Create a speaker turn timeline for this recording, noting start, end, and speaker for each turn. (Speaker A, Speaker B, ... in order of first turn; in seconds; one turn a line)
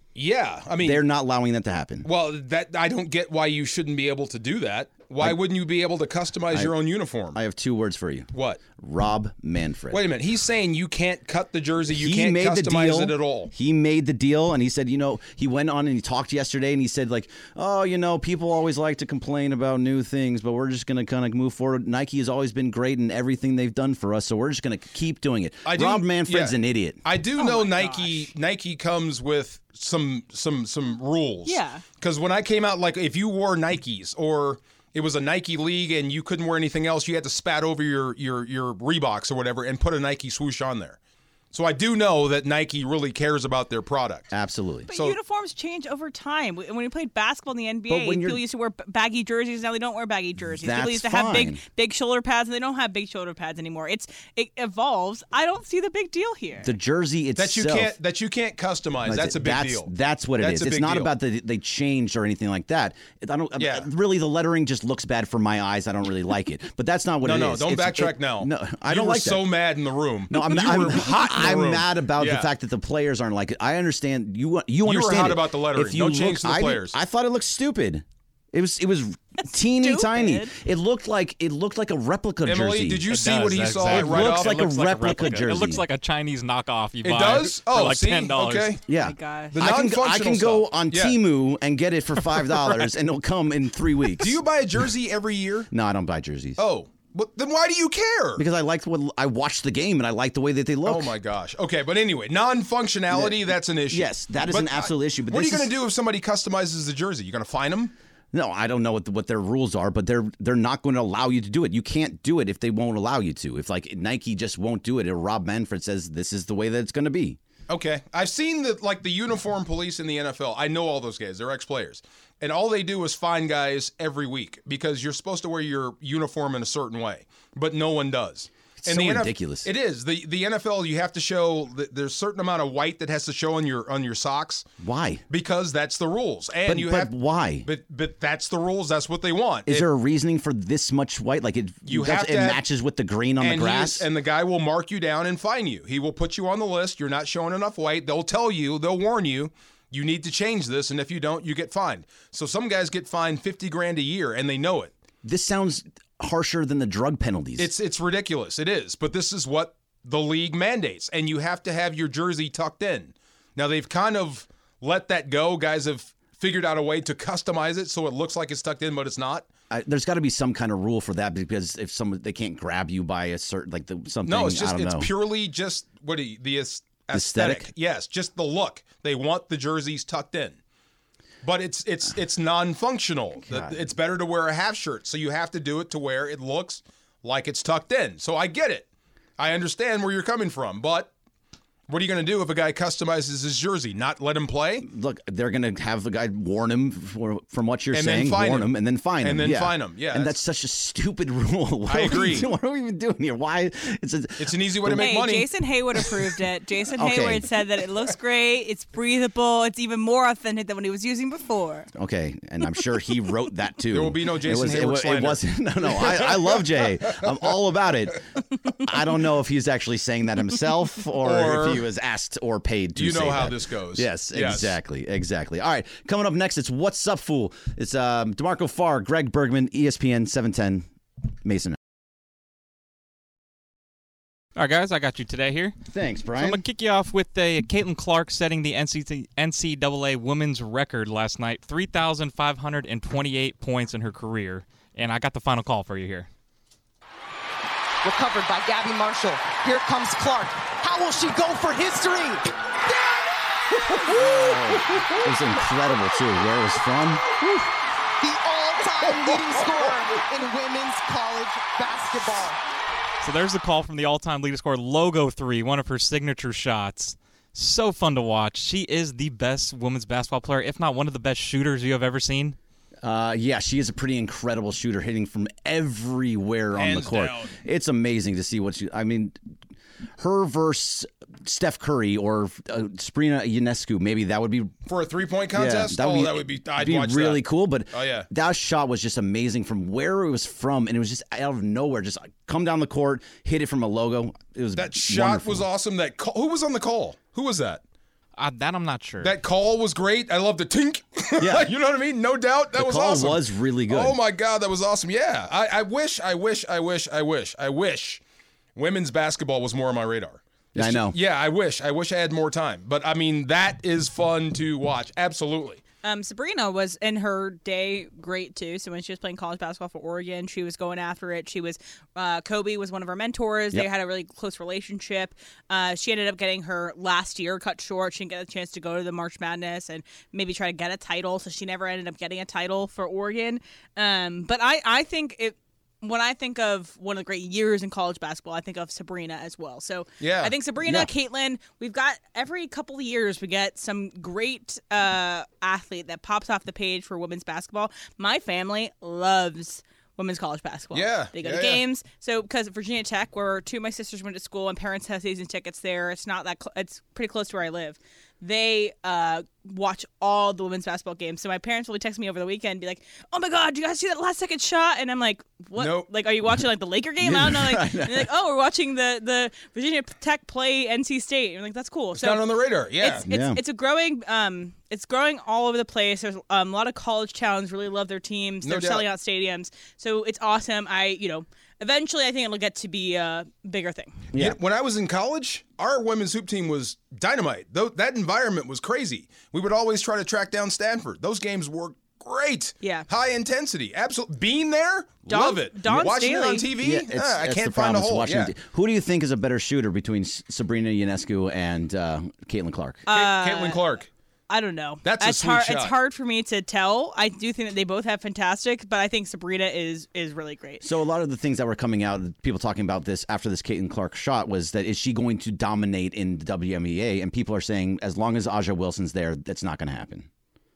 Speaker A: 0.1-1.0
Speaker B: 0.8-2.1
Speaker A: 2.0-7.4
Speaker B: 7.3-10.0
Speaker A: 8.3-8.6
Speaker A: 9.9-13.5
Speaker B: 11.9-27.0
Speaker A: 25.6-41.0
Speaker C: 27.4-28.3
Speaker C: 31.4-31.8
Speaker A: 41.5-44.3
Speaker B: 44.3-44.9
Speaker C: 44.9-56.7
Speaker B: 47.9-48.4
Speaker B: 50.4-51.6
Speaker B: 56.6-57.9
Speaker A: 57.4-61.1
Speaker B: 59.0-69.5
Speaker A: 63.6-63.9
Speaker A: 67.2-72.5
Speaker B: 70.3-83.0
Speaker A: 74.8-76.9
Speaker C: 79.7-80.5
Speaker A: 82.4-84.7
Speaker D: 83.1-88.8
Speaker B: 83.9-85.8
Speaker A: 87.0-88.8
Speaker B: 88.9-94.4
Speaker C: 89.0-89.6
Speaker A: 89.5-91.2
Speaker A: 94.2-95.7
Speaker B: 95.7-96.6
Speaker A: 96.6-98.4
Speaker B: 98.3-101.1
Speaker A: 100.8-107.9
Speaker B: 103.1-103.4
Speaker B: 103.9-105.7
Speaker B: 108.3-117.4
Speaker A: 117.7-134.6
Speaker B: 128.8-129.7
Speaker B: 134.8-135.2
Speaker A: 135.3-137.1
Speaker B: 136.7-137.7
Speaker A: 137.6-139.9
Speaker B: 139.7-144.1
Speaker A: 141.8-142.6
Speaker A: 143.4-154.9
Speaker B: 155.2-157.7
Speaker A: 157.6-169.5
Speaker B: 169.7-175.1
Speaker A: 174.2-180.6
Speaker B: 177.1-177.7
Speaker A: 181.4-188.9
Speaker B: 183.5-183.8
Speaker A: 189.4-191.1
Speaker A: 191.9-194.8
Speaker B: 194.8-205.1
Speaker A: 197.9-200.3
Speaker A: 201.9-202.5
Speaker A: 204.4-205.5
Speaker C: 204.9-211.9
Speaker B: 206.9-207.5
Speaker B: 211.9-230.9
Speaker A: 213.9-217.3
Speaker A: 221.2-221.8
Speaker A: 222.9-224.8
Speaker B: 231.4-231.8
Speaker D: 234.6-235.8
Speaker B: 235.9-236.6
Speaker D: 236.3-246.3
Speaker E: 248.0-252.5
Speaker B: 254.0-257.6
Speaker E: 258.2-262.6
Speaker D: 263.2-272.6
Speaker B: 273.0-279.4
Speaker A: 276.7-277.5
Speaker B: 280.2-284.7
Speaker A: 284.9-287.4
Speaker B: 285.5-295.7
Speaker A: 287.9-288.3
Speaker A: 294.7-297.8
Speaker D: 298.4-299.3
Speaker A: 299.2-308.2
Speaker B: 301.4-301.7
Speaker B: 302.7-304.2
Speaker A: 308.8-315.8
Speaker B: 310.7-311.1
Speaker C: 316.0-384.2
Speaker A: 340.2-341.0
Speaker A: 350.9-351.8
Speaker A: 365.8-366.1
Speaker B: 367.2-368.3
Speaker A: 372.2-373.2
Speaker B: 373.2-373.6
Speaker A: 378.6-379.1
Speaker B: 384.3-384.6
Speaker A: 384.3-398.5
Speaker C: 392.8-393.1
Speaker C: 395.3-396.7
Speaker B: 396.8-403.1
Speaker C: 403.1-403.8
Speaker A: 403.1-404.1
Speaker C: 404.5-410.8
Speaker A: 405.0-405.9
Speaker B: 410.8-420.3